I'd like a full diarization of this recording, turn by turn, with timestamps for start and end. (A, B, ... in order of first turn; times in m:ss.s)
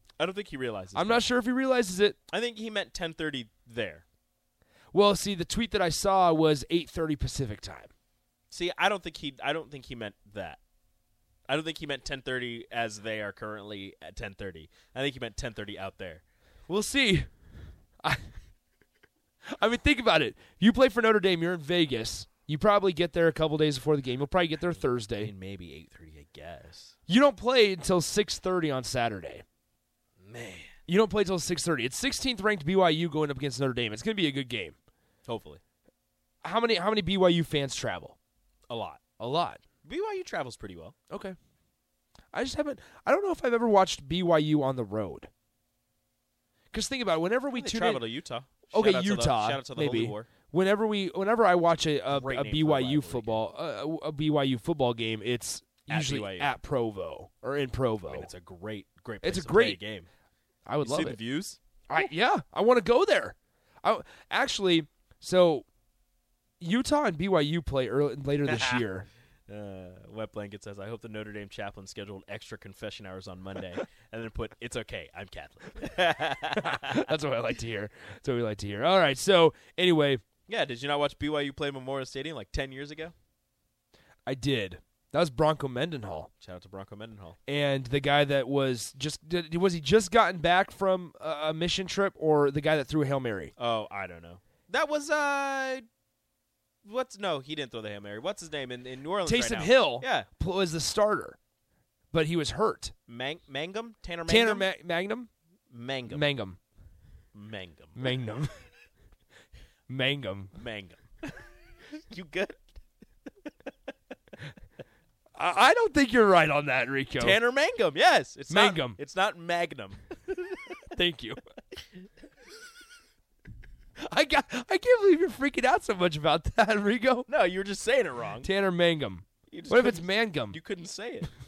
0:00.2-0:01.3 A
0:01.0-0:02.2 B
0:02.3-0:04.0 A
0:04.9-0:07.9 B
0:08.5-0:10.6 A
0:11.5-0:16.2 A
0:16.7-0:17.3 B
0:18.0-0:18.4 B
0:19.6-0:25.3 B
0:25.2-0:27.0 A
0:27.1-0:29.4 B
0:30.2-0:30.8 A
0:30.9-0:34.8 B
0:35.3-0:35.6 A
0:36.4-0:38.2 B
0:38.7-0:39.0 A
0:39.2-0:39.6 B
0:39.8-0:41.0 A
0:41.1-0:41.4 B
0:42.3-0:45.3 B
0:46.7-0:48.0 B
0:47.5-0:50.3 A
0:48.7-0:58.3 B
0:52.1-0:53.5 A
0:55.9-0:56.5 A
0:58.1-1:00.1 A
0:59.2-0:59.8 B
1:00.7-1:01.2 B
1:00.8-1:01.6 A
1:01.9-1:05.6 B
1:06.6-1:09.1 B
1:08.5-1:08.8 A
1:09.5-1:17.0 A
1:16.6-1:20.2 B
1:20.5-1:23.1 A
1:24.3-1:26.3 B
1:26.4-1:27.4 A
1:27.5-1:33.5 B
1:33.6-1:35.8 A
1:36.8-1:40.3 A
1:39.2-1:41.4 B
1:42.1-1:42.9 B
1:43.1-1:44.7 A
1:44.3-1:45.3 B
1:45.7-1:46.3 A
1:46.1-1:46.6 B
1:47.3-1:48.1 A
1:48.0-1:48.6 B
1:49.9-1:50.6 B
1:50.6-1:52.8 A
1:53.4-1:53.7 A
1:55.4-1:57.4 B
1:57.2-2:00.8 A
1:58.5-1:59.0 B
2:00.9-2:01.4 B
2:04.0-2:07.3 B
2:07.3-2:08.5 A
2:08.4-2:10.6 B
2:09.5-2:11.3 A